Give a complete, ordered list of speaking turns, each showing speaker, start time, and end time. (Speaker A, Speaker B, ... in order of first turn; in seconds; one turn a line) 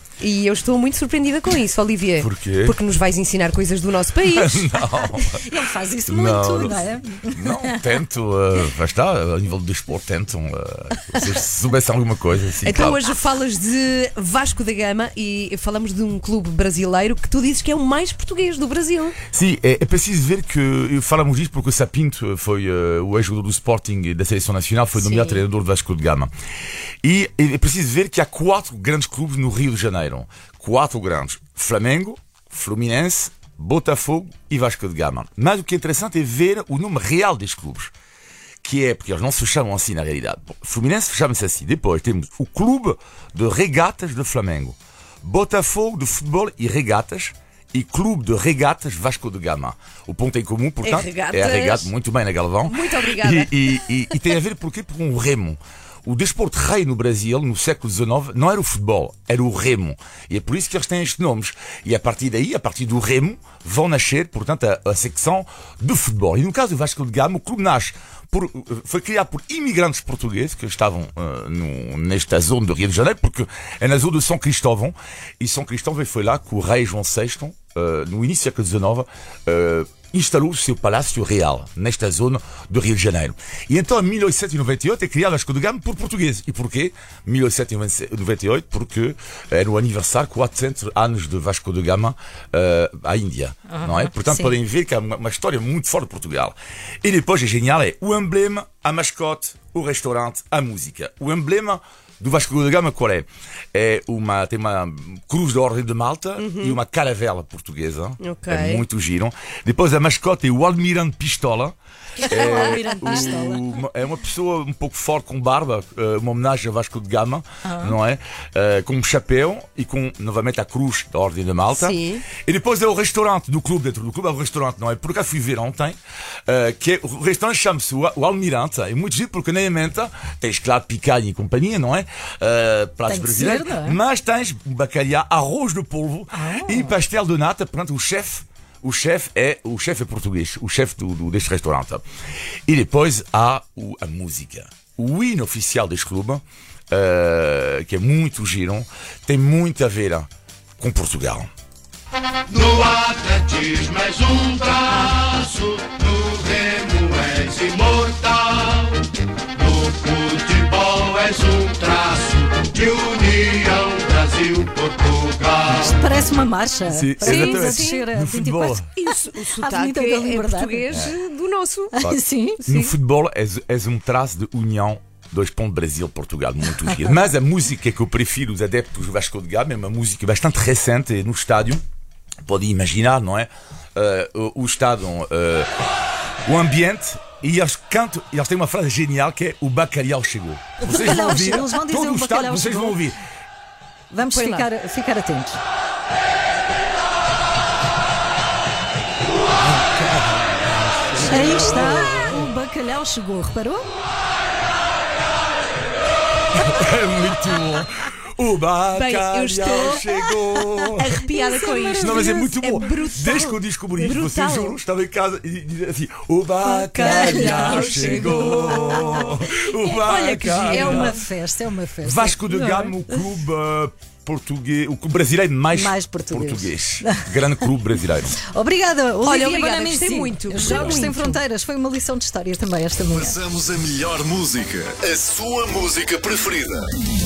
Speaker A: 0.2-4.9
Speaker B: 2.2-2.8
Speaker B: 4.3-5.4
Speaker C: 5.2-7.9
Speaker B: 6.1-13.0
Speaker A: 12.6-19.2
Speaker B: 19.3-26.3
Speaker A: 24.9-25.4
Speaker B: 27.0-37.9
Speaker B: 38.6-111.8
Speaker A: 50.8-51.9
Speaker A: 52.6-53.9
Speaker C: 93.7-94.6
Speaker A: 106.4-106.8
Speaker A: 108.2-108.8
Speaker C: 112.2-113.7
Speaker A: 112.3-112.8
Speaker B: 112.3-126.0
Speaker C: 117.6-118.0
Speaker A: 121.7-122.3
Speaker B: 126.5-142.0
Speaker C: 133.1-134.0
Speaker C: 136.3-137.0
Speaker B: 142.7-151.5
Speaker D: 152.5-159.0
Speaker D: 159.6-165.5
Speaker C: 165.6-168.9
Speaker B: 166.9-168.9
Speaker A: 167.2-168.1
Speaker A: 169.0-172.0
Speaker C: 169.5-170.9
Speaker B: 170.9-171.2
Speaker C: 171.9-172.6
Speaker B: 172.0-181.8
Speaker A: 172.6-172.9
Speaker B: 182.5-185.7
Speaker B: 186.4-193.2
Speaker C: 190.8-193.0
Speaker C: 194.1-195.6
Speaker A: 194.2-194.7
Speaker C: 201.2-203.9
Speaker B: 201.4-202.3
Speaker B: 206.6-211.2
Speaker A: 208.9-210.0
Speaker A: 211.0-214.8
Speaker C: 211.4-212.3
Speaker B: 212.0-221.2
Speaker A: 216.6-219.4
Speaker C: 217.0-223.0
Speaker A: 220.1-221.2
Speaker B: 222.0-228.4
Speaker C: 225.7-227.8
Speaker C: 228.4-233.4
Speaker A: 229.3-231.4
Speaker E: 233.1-236.9